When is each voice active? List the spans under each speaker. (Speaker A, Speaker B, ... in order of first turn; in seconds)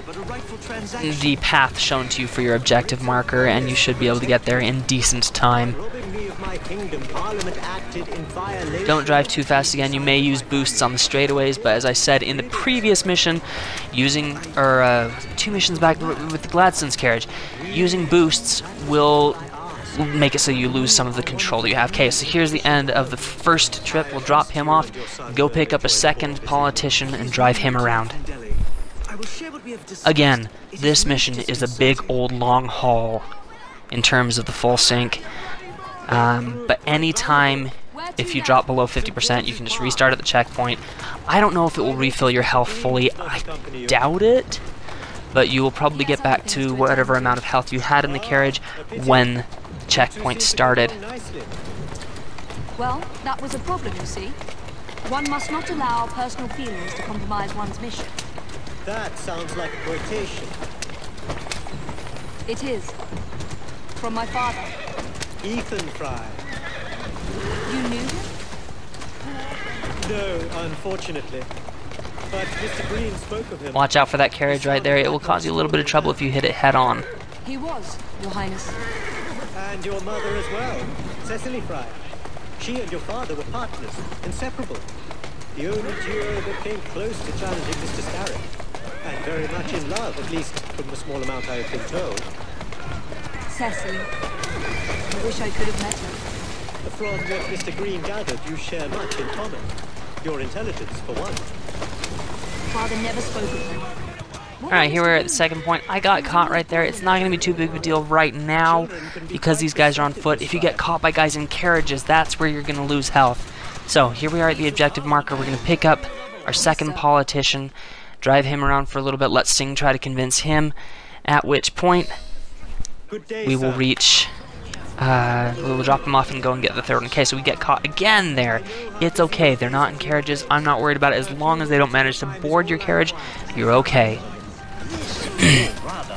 Speaker A: 0.5-1.1, 3.1-4.5, 5.9-10.7, 18.9-20.0, 21.0-28.6, 29.2-30.0, 30.8-32.0, 42.0-43.9, 48.2-49.2, 50.0-51.5, 58.8-60.5, 65.4-66.4, 70.0-71.5, 72.3-73.7, 74.7-76.0, 79.5-82.0, 82.6-84.8, 85.5-88.4, 89.0-92.3, 96.8-99.7, 100.2-101.5, 108.7-110.8, 123.1-123.8, 128.8-130.4, 131.4-133.3
Speaker B: 1.0-5.8, 8.8-19.4, 19.9-28.2, 30.0-33.3, 33.9-35.2, 36.1-44.6, 45.3-51.0, 73.7-77.1, 104.7-120.7, 121.2-122.1, 123.4-124.3, 125.0-134.2
Speaker C: 37.9-38.6, 45.9-47.4, 52.8-54.4, 55.0-58.2, 62.5-63.0, 64.0-64.7, 67.6-68.3, 77.4-78.8, 93.5-94.1, 95.1-96.2, 102.7-103.9, 104.6-105.4, 106.3-107.2